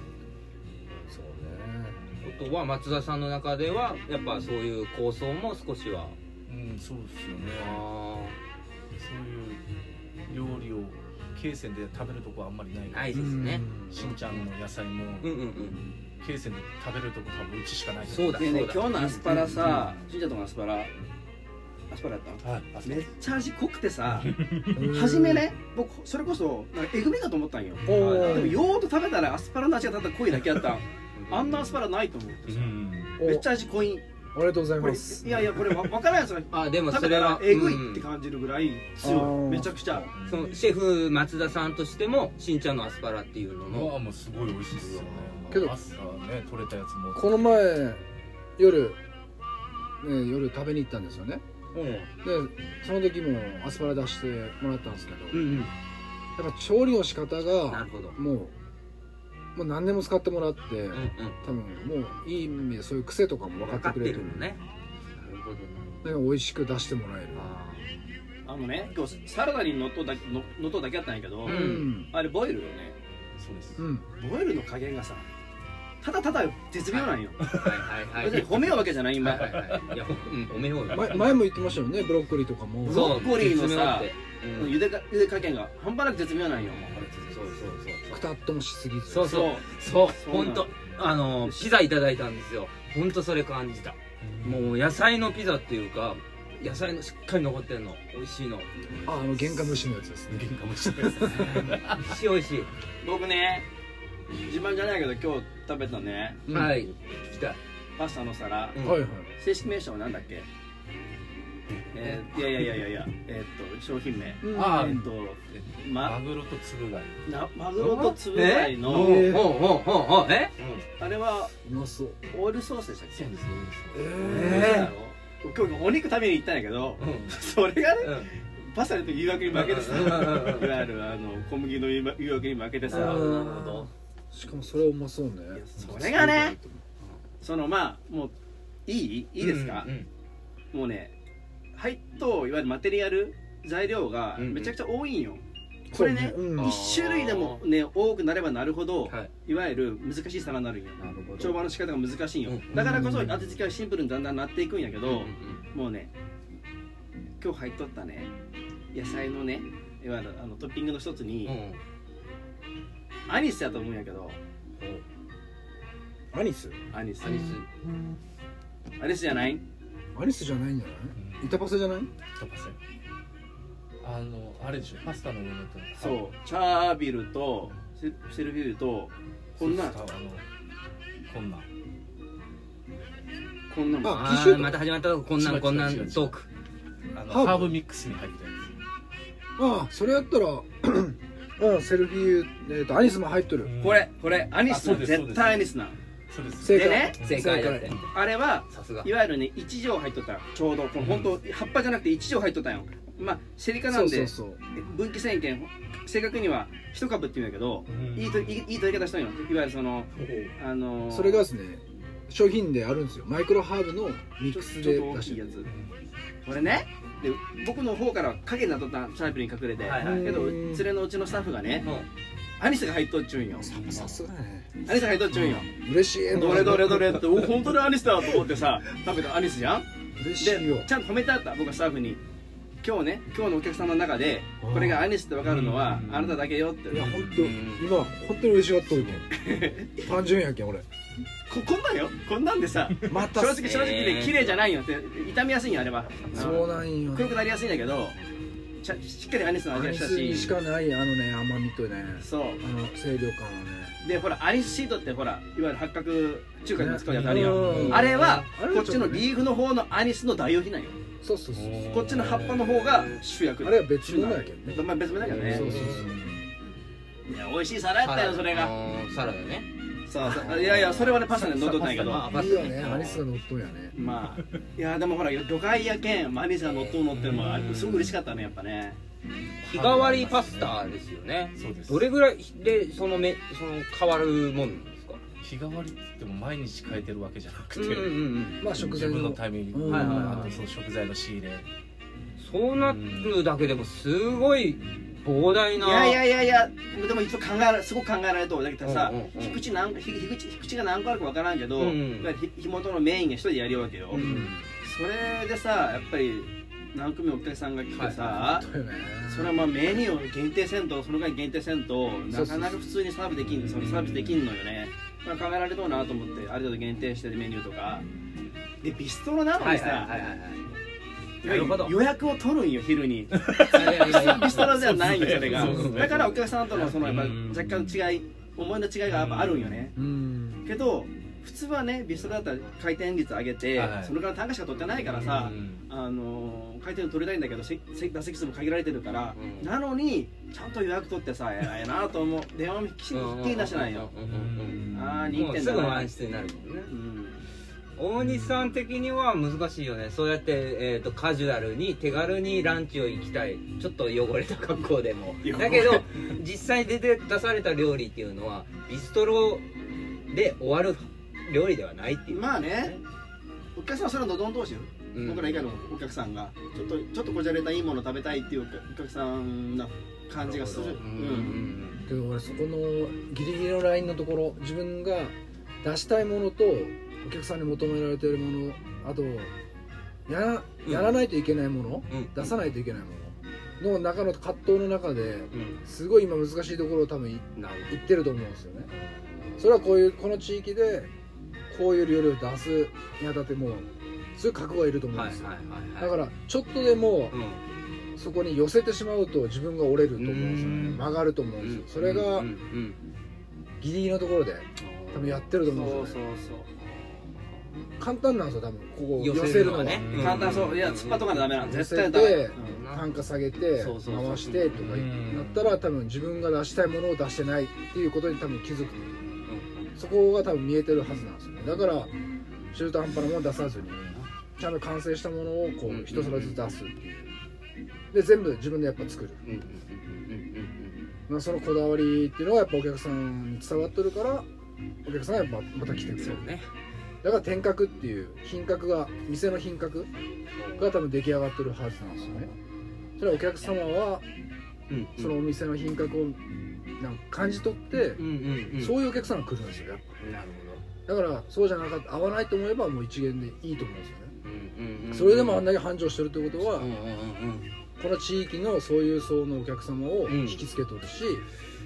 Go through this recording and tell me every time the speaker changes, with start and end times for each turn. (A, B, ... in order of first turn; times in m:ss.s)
0:01.1-0:02.0 A
0:02.2-0:06.2 B
0:06.5-0:07.8 C
0:07.6-0:08.4 B
0:08.9-0:09.6 C
0:10.3-0:15.4 C
0:12.9-0:13.7 B
0:13.1-0:14.2 A
0:15.2-0:15.8 B
0:16.2-0:18.6 C
0:18.1-0:19.5 B
0:18.4-0:20.9 D
0:19.2-0:19.9 C
0:21.9-0:34.0 D
0:22.4-0:23.1 C
0:24.1-0:24.9 C
0:24.7-0:25.4 A
0:27.8-0:28.6 A
0:27.9-0:28.6 B
0:30.4-0:30.6 C
0:31.1-0:31.6 B
0:32.5-0:33.2 C
0:33.2-0:33.5 A
0:34.3-0:35.3 A
0:34.8-0:40.1 D
0:35.3-0:35.6 C
0:36.5-0:38.0 B
0:39.0-0:40.1 A
0:40.1-0:40.6 C
0:40.3-0:43.9 B
0:43.7-0:47.4 C
0:44.8-0:45.6 B
0:45.5-0:45.7 A
0:47.1-0:48.0 A
0:48.6-0:49.0 A
0:50.0-0:51.4 A
0:51.7-0:52.1 B
0:52.2-0:55.5 A
0:55.3-0:55.7 B
0:56.4-0:58.5 A
0:57.7-0:58.2 B
0:59.5-1:04.5 A
1:00.9-1:01.4 B
1:03.6-1:04.6 B
1:05.2-1:06.1 B
1:06.0-1:07.5 A
1:07.3-1:07.9 B
1:08.4-1:12.9 D
1:08.8-1:09.3 C
1:11.4-1:11.9 B
1:11.4-1:12.1 A
1:13.4-1:13.8 C
1:13.8-1:14.1 A
1:14.2-1:15.2 D
1:16.0-1:17.5 D
1:16.9-1:21.4 B
1:17.4-1:20.0 C
1:18.2-1:19.6 D
1:20.9-1:23.2 A
1:22.8-1:24.8 B
1:22.8-1:27.2 D
1:26.8-1:27.7 C
1:27.3-1:28.2 B
1:28.1-1:29.4 A
1:29.1-1:38.7 B
1:29.2-1:30.7 D
1:34.2-1:34.8 C
1:39.0-1:41.7 A
1:39.4-1:39.8 C
1:40.3-1:42.2 C
1:41.3-1:42.7 B
1:43.0-1:43.6 D
1:44.5-1:46.4 D
1:46.5-1:46.8 A
1:46.5-1:47.6 B
1:48.0-1:48.8 D
1:48.7-1:49.0 B
1:48.8-1:49.3 A
1:49.4-1:50.4 D
1:51.9-1:56.2 D
1:54.4-1:55.1 A
1:54.5-1:55.0 C
1:55.5-1:57.2 C
1:57.2-1:59.3 D
1:57.8-2:00.8 B
1:57.8-1:58.1 C
1:58.8-1:59.5 A
2:01.0-2:01.5 D
2:01.6-2:02.2 A
2:02.3-2:03.3 D
2:03.1-2:04.2 C
2:03.9-2:04.8 A
2:04.2-2:13.5 D
2:04.2-2:04.9 B
2:07.0-2:07.4 B
2:08.0-2:08.3 B
2:09.5-2:10.8 B
2:12.9-2:16.8 A
2:12.9-2:13.9 B
2:15.5-2:16.6 D
2:17.4-2:18.3 D
2:18.9-2:19.9 D
2:19.4-2:20.1 B
2:20.7-2:21.1 D
2:21.7-2:36.1 D
2:24.4-2:24.7 B
2:25.9-2:26.8 A
2:26.6-2:27.6 B
2:31.0-2:31.6 B
2:32.4-2:33.0 B
2:32.7-2:33.4 A
2:35.0-2:35.6 B
2:37.4-2:38.3 D
2:38.9-2:41.6 D
2:41.4-2:41.8 B
2:43.3-2:44.4 D
2:46.3-2:46.8 A
2:46.9-2:47.6 D
2:47.2-2:47.6 B
2:49.0-2:49.6 D
2:50.1-2:52.1 A
2:51.2-2:51.6 C
2:52.3-2:52.8 C
2:54.0-2:56.2 C
2:56.0-3:00.0 D
2:59.6-3:00.4 C
3:01.3-3:01.7 C
3:03.7-3:04.4 D
3:04.0-3:04.7 A
3:04.0-3:06.5 B
3:05.4-3:06.3 C
3:07.1-3:08.8 C
3:07.3-3:07.8 A
3:09.6-3:13.7 A
3:13.6-3:14.1 C
3:13.8-3:16.0 D
3:14.6-3:15.7 C
3:16.3-3:18.1 C
3:16.6-3:17.9 A
3:16.6-3:17.2 D
3:17.2-3:18.0 B
3:18.1-3:31.5 D
3:18.7-3:19.1 B
3:21.0-3:21.3 C
3:23.9-3:24.6 A
3:27.9-3:28.6 C
3:30.2-3:30.5 B
3:31.1-3:35.4 A
3:34.5-3:35.7 D
3:35.6-3:36.0 C
3:36.4-3:41.9 D
3:39.8-3:40.4 B
3:40.0-3:40.8 A
3:42.6-3:43.8 D
3:43.6-3:47.4 A
3:43.8-3:44.1 C
3:44.8-3:45.7 D
3:46.3-3:49.8 D
3:50.2-3:50.9 A
3:50.4-3:52.2 D
3:52.8-3:57.2 D
3:54.6-3:55.1 A
3:55.4-3:57.5 C
3:56.9-4:00.8 A
3:57.3-3:57.9 B
3:59.3-4:00.0 D
4:01.5-4:08.2 D
4:03.1-4:03.7 A
4:03.6-4:04.6 B
4:06.3-4:07.4 A
4:08.8-4:10.5 D
4:09.7-4:14.0 A
4:12.2-4:12.6 D
4:14.0-4:21.0 D
4:16.7-4:19.3 A
4:17.1-4:18.1 C
4:17.5-4:18.3 B
4:21.2-4:22.0 A
4:21.5-4:22.7 C
4:21.9-4:26.0 D
4:22.6-4:23.2 B
4:23.6-4:26.4 A
4:25.2-4:26.0 B
4:25.4-4:26.3 C
4:27.3-4:28.7 D
4:28.0-4:29.7 B
4:30.1-4:32.3 D
4:30.2-4:30.8 A
4:30.3-4:31.2 B
4:31.3-4:33.9 A
4:31.9-4:33.2 B
4:33.9-4:39.0 D
4:36.6-4:37.7 B
4:37.1-4:38.1 C
4:39.6-4:40.8 C
4:39.6-4:45.2 B
4:41.5-4:42.1 C
4:45.4-4:51.7 C
4:47.8-4:48.6 B
4:48.6-4:50.5 A
4:49.8-4:50.6 B
4:52.4-4:56.2 B
4:52.8-4:53.4 C
4:55.8-5:04.2 D
4:58.8-4:59.6 B
5:01.8-5:02.3 B
5:04.1-5:04.5 B
5:04.1-5:04.7 A
5:04.8-5:08.6 D
5:07.9-5:08.4 B
5:08.4-5:09.6 A
5:09.3-5:18.0 D
5:12.3-5:12.8 A
5:13.5-5:14.4 C
5:18.8-5:20.1 D
5:19.6-5:20.6 B
5:21.4-5:22.0 B
5:21.4-5:29.9 D
5:23.4-5:28.0 C
5:23.7-5:24.8 B
5:25.4-5:26.2 B
5:29.1-5:29.9 C
5:30.0-5:30.7 A
5:30.6-5:44.1 D
5:33.7-5:34.2 C
5:35.0-5:35.8 C
5:39.4-5:39.7 B
5:43.1-5:46.9 B
5:44.2-5:45.4 C
5:44.9-5:46.1 D
5:46.9-5:47.4 D
5:48.0-5:59.6 B
5:55.4-5:56.0 D
6:00.3-6:03.0 B
6:02.3-6:03.0 D
6:03.8-6:11.6 D
6:05.1-6:05.7 B
6:10.4-6:12.0 B
6:12.0-6:19.5 A
6:20.3-6:28.9 A
6:20.8-6:21.2 B
6:25.5-6:25.8 B
6:27.6-6:28.0 B
6:29.6-6:31.1 A
6:31.7-6:37.4 A
6:35.1-6:36.2 B
6:37.3-6:37.6 B
6:38.2-6:42.5 A
6:40.2-6:43.0 B
6:43.8-6:46.2 A
6:44.8-6:45.4 B
6:45.6-6:46.7 D
6:48.0-6:50.2 A
6:49.2-6:51.6 B
6:49.9-6:50.8 C
6:50.1-6:52.8 D
6:51.5-6:59.1 A
6:52.6-6:53.0 B
6:53.8-6:55.0 B
6:54.7-6:55.8 C
6:59.4-6:59.9 B
7:00.0-7:02.1 A
7:02.7-7:07.3 A
7:05.9-7:06.6 B
7:08.1-7:09.4 A
7:09.4-7:11.1 B
7:11.3-7:14.5 A
7:15.0-7:16.5 A
7:16.2-7:16.6 B
7:17.2-7:20.1 A
7:20.6-7:21.0 B
7:20.8-7:22.5 A
7:23.2-7:24.2 A
7:24.9-7:25.4 B
7:25.2-7:26.4 A
7:27.0-7:28.2 A
7:28.2-7:29.0 B
7:28.8-7:30.1 A
7:30.2-7:30.8 B
7:31.0-7:34.3 A
7:34.4-7:35.7 B
7:35.1-7:36.9 A
7:36.6-7:37.7 B
7:38.0-7:41.4 A
7:40.3-7:40.6 B